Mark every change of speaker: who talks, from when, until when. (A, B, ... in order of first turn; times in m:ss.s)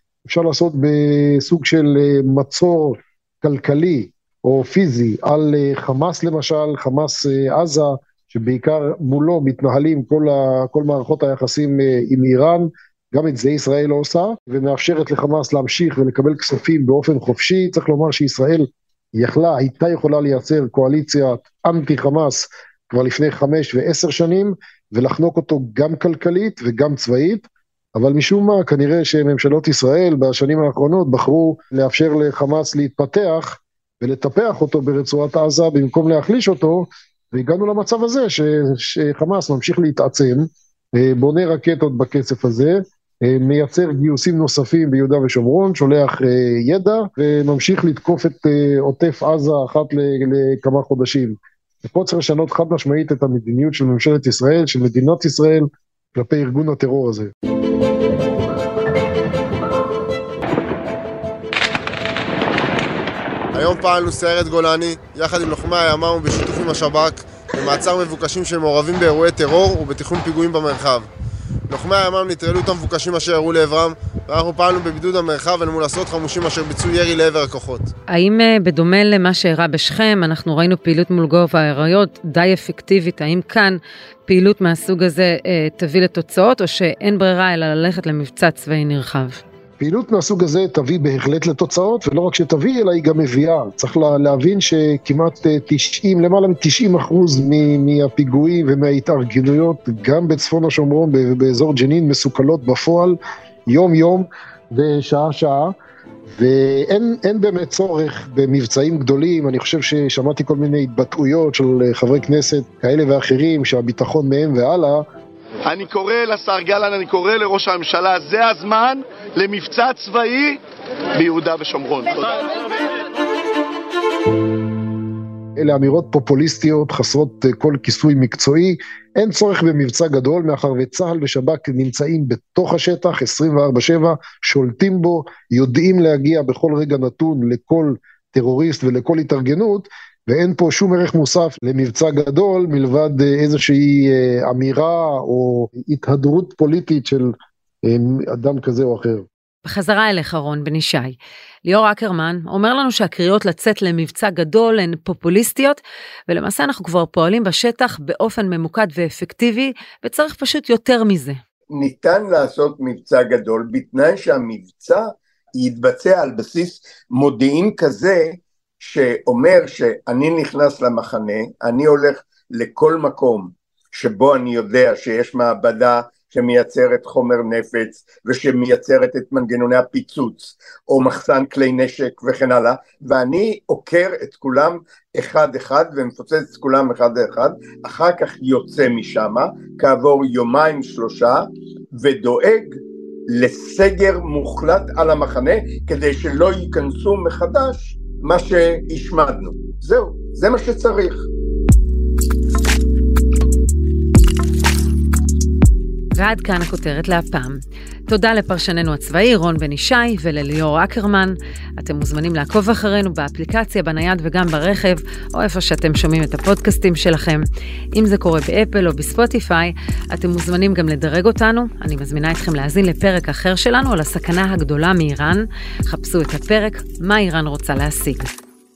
0:00.2-0:57.3 A
1:03.5-1:11.1 B
1:11.7-1:17.9 B
1:18.1-1:29.4 C
1:29.8-1:45.7 A
1:46.3-1:55.0 A
1:55.6-2:00.6 D
2:01.1-2:02.5 D
2:05.6-2:29.3 A
2:29.6-2:41.4 C
2:41.7-3:21.3 E
3:26.2-3:48.4 C